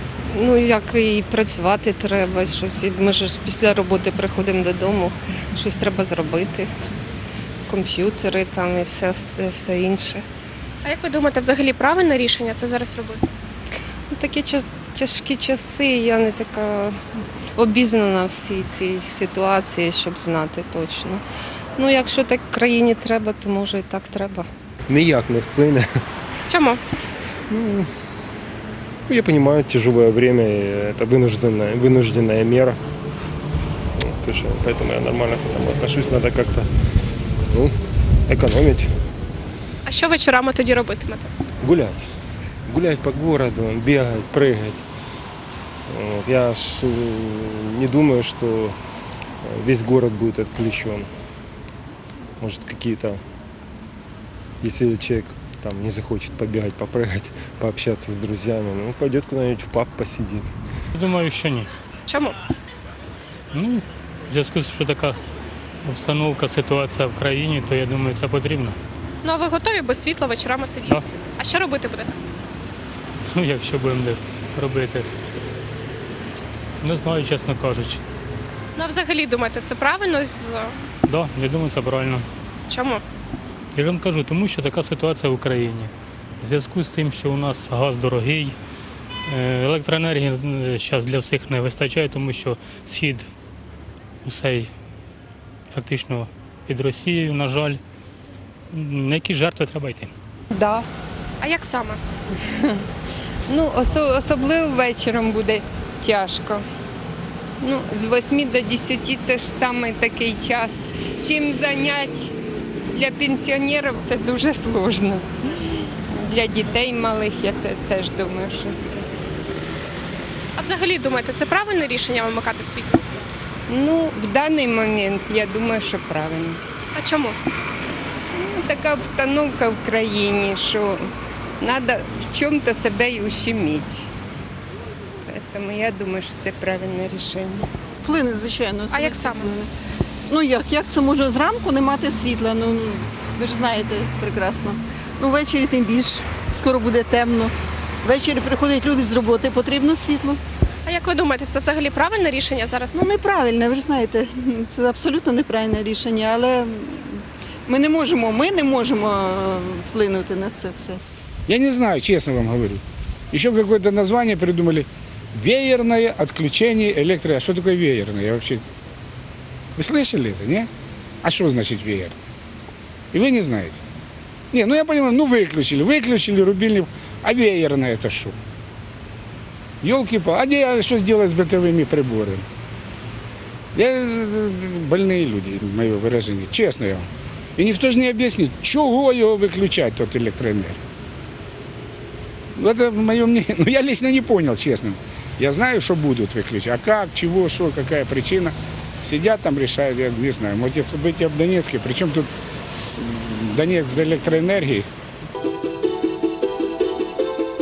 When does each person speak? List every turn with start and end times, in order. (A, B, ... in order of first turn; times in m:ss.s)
0:00.3-0:06.7 A
0:07.7-0:10.2 A
0:10.8-0:13.2 B
0:14.1-0:17.0 A
0:17.6-0:21.2 A
0:21.8-0:24.5 A
0:24.9-0:26.0 C
0:26.5-0:26.8 B
0:27.5-0:27.9 C
0:29.1-0:32.8 C
0:34.0-0:36.7 C
0:37.5-0:37.8 C
0:38.3-0:38.9 C
0:39.9-0:41.3 B
0:41.6-0:42.1 C
0:42.7-0:44.8 C
0:45.9-0:48.8 C
0:49.4-0:51.1 C
0:52.4-0:53.2 C
0:54.6-1:00.5 C
1:01.0-1:01.7 D
1:02.1-1:02.4 B
1:03.5-1:05.2 D
1:05.8-1:08.8 D
1:09.2-1:12.2 B
1:13.3-1:15.1 D
1:16.8-1:18.0 D
1:18.8-1:20.7 B
1:21.1-1:22.3 D
1:22.7-1:23.0 B
1:23.7-1:28.6 D
1:29.3-1:33.3 D
1:34.2-1:34.7 D
1:35.7-1:37.8 D
1:38.7-1:40.1 D
1:41.4-1:42.0 B
1:43.5-1:46.6 E
1:47.6-1:52.4 E
1:52.9-1:55.3 E
1:56.1-1:59.0 E
2:00.6-2:03.0 B
2:03.7-2:06.6 E
2:07.0-2:07.4 B
2:08.3-2:11.0 E
2:11.6-2:14.1 E
2:15.3-2:17.7 E
2:18.0-2:19.7 F
2:18.9-2:19.5 B
2:20.3-2:30.4 F
2:30.8-2:33.0 B
2:32.9-2:41.0 F
2:41.5-2:48.6 G
2:49.8-2:50.7 G
2:51.2-2:52.2 G
2:53.1-2:53.8 G
2:54.5-2:58.4 G
2:59.8-3:02.5 G
3:03.8-3:07.1 G
3:07.6-3:10.8 G
3:12.6-3:22.3 G
3:23.0-3:24.9 G